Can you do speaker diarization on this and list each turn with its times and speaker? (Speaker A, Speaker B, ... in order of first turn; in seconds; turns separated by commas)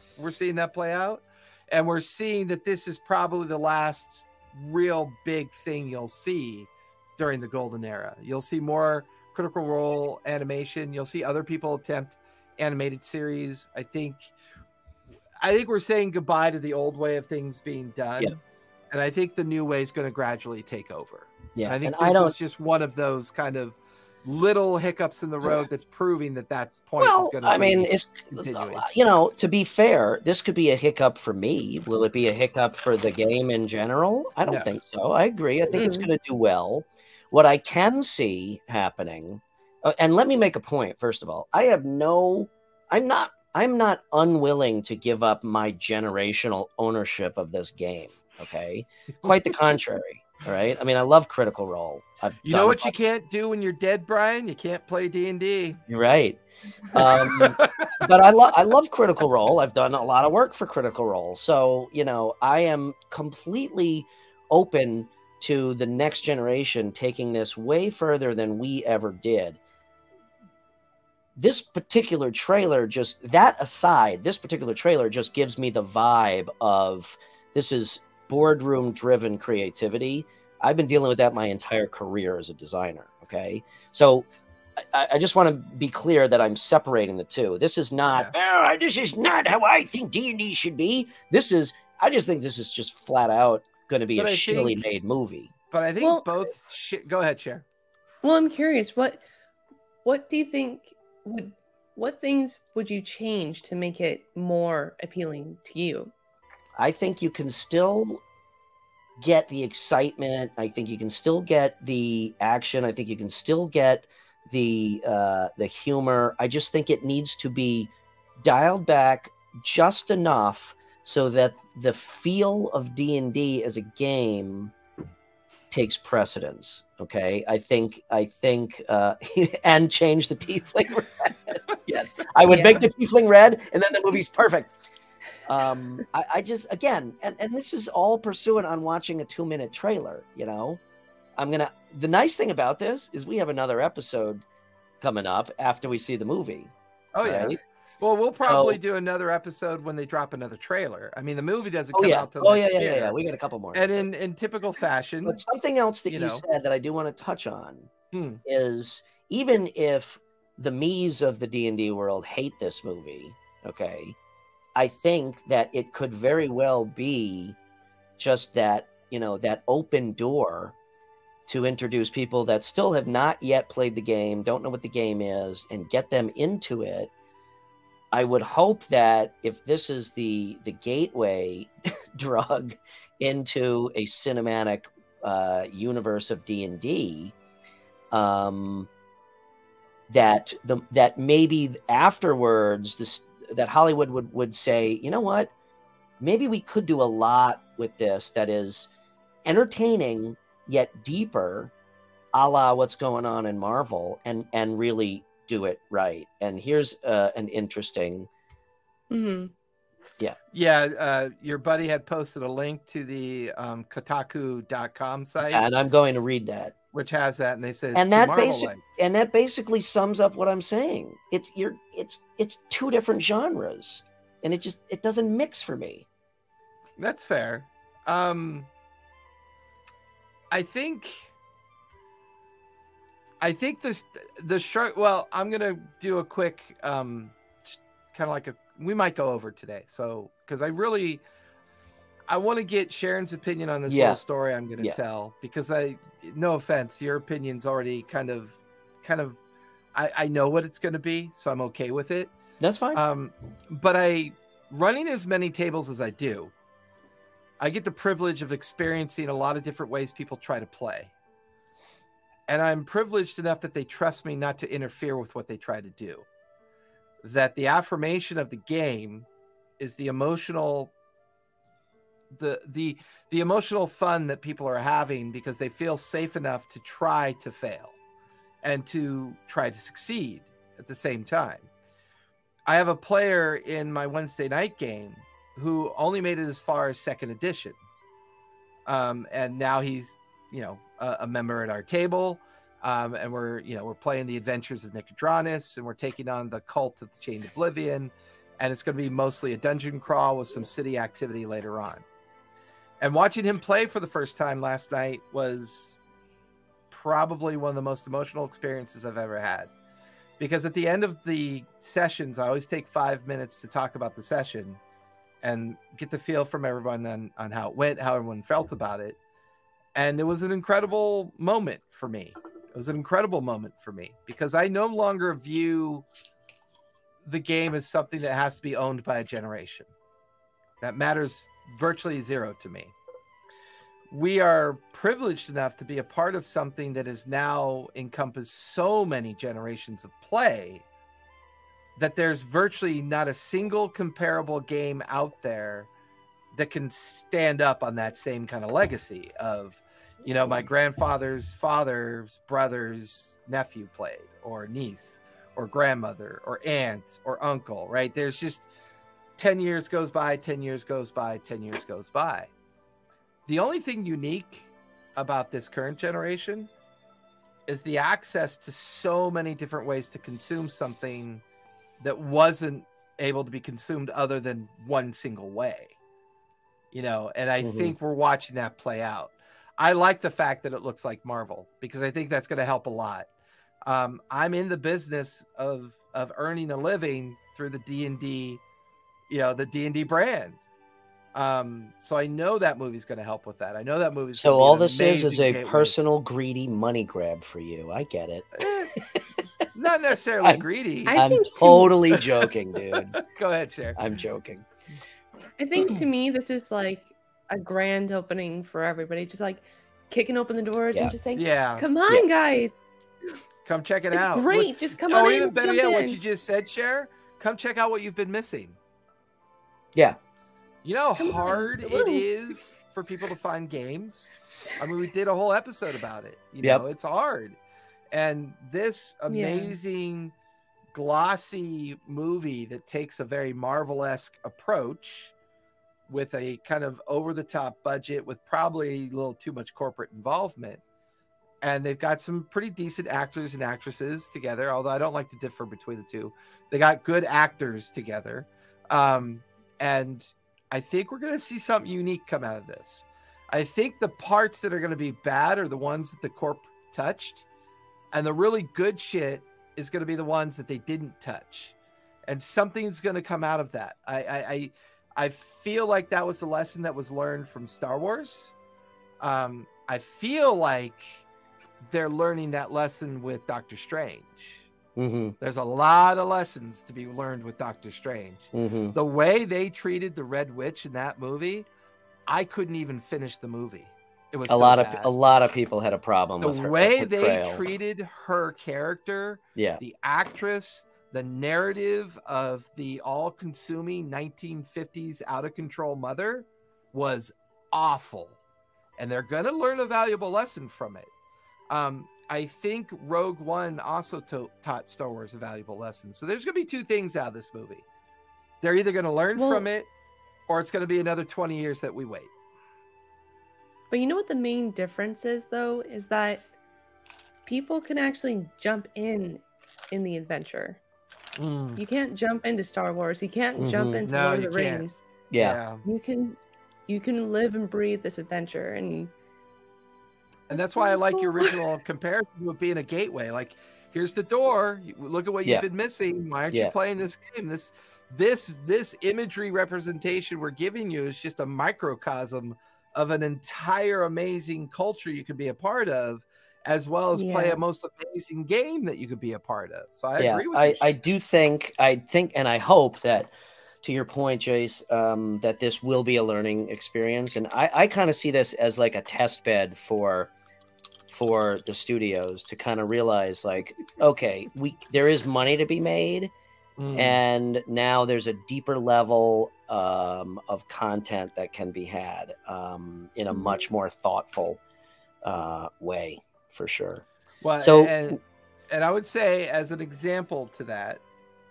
Speaker A: 0.2-14.3, Speaker A: 15.4-18.4, Speaker A: 18.9-28.8, Speaker B: 21.6-22.4, Speaker B: 27.0-52.9, Speaker C: 35.7-36.1, Speaker A: 52.4-55.8, Speaker B: 55.9-69.6, Speaker A: 56.9-58.0, Speaker B: 71.3-95.5, Speaker A: 94.2-94.8, Speaker A: 95.7-97.6, Speaker C: 96.0-96.3, Speaker C: 98.2-99.2, Speaker C: 100.0-106.1, Speaker B: 106.8-108.2, Speaker B: 109.2-124.7, Speaker B: 125.7-134.7, Speaker C: 132.5-132.8, Speaker B: 135.4-140.8, Speaker B: 141.3-144.4, Speaker B: 145.0-147.6, Speaker A: 147.1-153.2, Speaker B: 148.4-148.8, Speaker B: 151.9-154.1, Speaker A: 153.7-155.4, Speaker B: 155.2-157.9, Speaker A: 156.1-156.4, Speaker A: 158.1-158.4, Speaker B: 158.4-164.2, Speaker B: 164.7-167.6, Speaker B: 168.2-170.7, Speaker B: 171.5-177.1, Speaker B: 178.1-187.3, Speaker B: 188.1-188.9, Speaker B: 190.1-195.5, Speaker B: 196.2-198.9, Speaker B: 199.4-201.7, Speaker B: 202.3-208.3, Speaker C: 209.1-209.5, Speaker A: 210.5-215.6, Speaker B: 215.4-216.7, Speaker A: 216.9-218.8, Speaker B: 217.9-226.1, Speaker A: 227.0-228.7, Speaker A: 230.5-231.3, Speaker A: 233.4-241.2, Speaker A: 242.3-249.4, Speaker B: 243.9-244.2, Speaker A: 249.9-252.3, Speaker B: 252.6-253.0, Speaker A: 252.9-256.5, Speaker A: 257.6-261.1, Speaker A: 262.5-266.2, Speaker A: 267.2-269.2, Speaker A: 269.8-270.9, Speaker A: 272.3-277.9, Speaker A: 278.6-281.7, Speaker A: 282.7-287.8, Speaker A: 288.9-302.0, Speaker A: 303.0-306.0, Speaker A: 306.9-309.7, Speaker A: 310.4-314.8, Speaker A: 315.4-319.2, Speaker A: 319.9-326.0, Speaker A: 327.2-329.9, Speaker A: 330.8-332.9, Speaker A: 334.1-340.8, Speaker A: 342.0-345.9, Speaker A: 346.5-358.7, Speaker A: 359.4-362.5, Speaker A: 363.4-366.7, Speaker A: 367.7-371.4, Speaker A: 372.0-375.9, Speaker A: 376.9-383.3, Speaker B: 377.6-377.9, Speaker A: 383.8-388.6, Speaker A: 389.3-390.6, Speaker A: 391.3-396.0, Speaker B: 394.4-399.7, Speaker A: 398.6-398.9, Speaker A: 399.7-401.2, Speaker B: 400.4-403.2, Speaker C: 401.1-402.2, Speaker A: 402.9-404.0, Speaker B: 403.9-404.6, Speaker C: 405.6-412.8, Speaker A: 411.4-411.9, Speaker A: 413.6-418.8, Speaker C: 414.1-416.2, Speaker A: 420.8-427.6, Speaker C: 421.2-422.2, Speaker A: 428.1-430.3, Speaker C: 429.3-429.8, Speaker A: 430.9-435.3, Speaker A: 436.1-440.8, Speaker A: 441.6-457.4, Speaker A: 458.1-461.7, Speaker A: 462.2-468.5, Speaker A: 469.2-471.2, Speaker A: 471.9-474.7, Speaker B: 474.9-475.4, Speaker A: 475.4-481.7, Speaker B: 478.5-478.9, Speaker A: 482.3-485.1, Speaker B: 484.5-487.6, Speaker A: 486.4-498.4, Speaker B: 489.6-489.8, Speaker A: 499.0-501.1, Speaker A: 501.7-507.8, Speaker A: 508.6-509.9, Speaker C: 509.4-509.6, Speaker A: 510.5-512.3, Speaker C: 513.9-516.4, Speaker C: 517.5-520.8, Speaker A: 521.4-521.8, Speaker C: 521.8-525.0, Speaker B: 523.5-524.0, Speaker A: 524.0-525.8, Speaker B: 525.3-525.6, Speaker C: 525.8-529.1, Speaker C: 530.5-531.5, Speaker A: 530.5-550.9, Speaker C: 547.1-547.6, Speaker B: 550.2-553.3, Speaker B: 553.8-560.3, Speaker B: 561.1-566.3, Speaker A: 566.8-567.2, Speaker B: 566.9-574.6, Speaker B: 575.2-577.0, Speaker A: 577.4-581.0, Speaker B: 577.6-578.2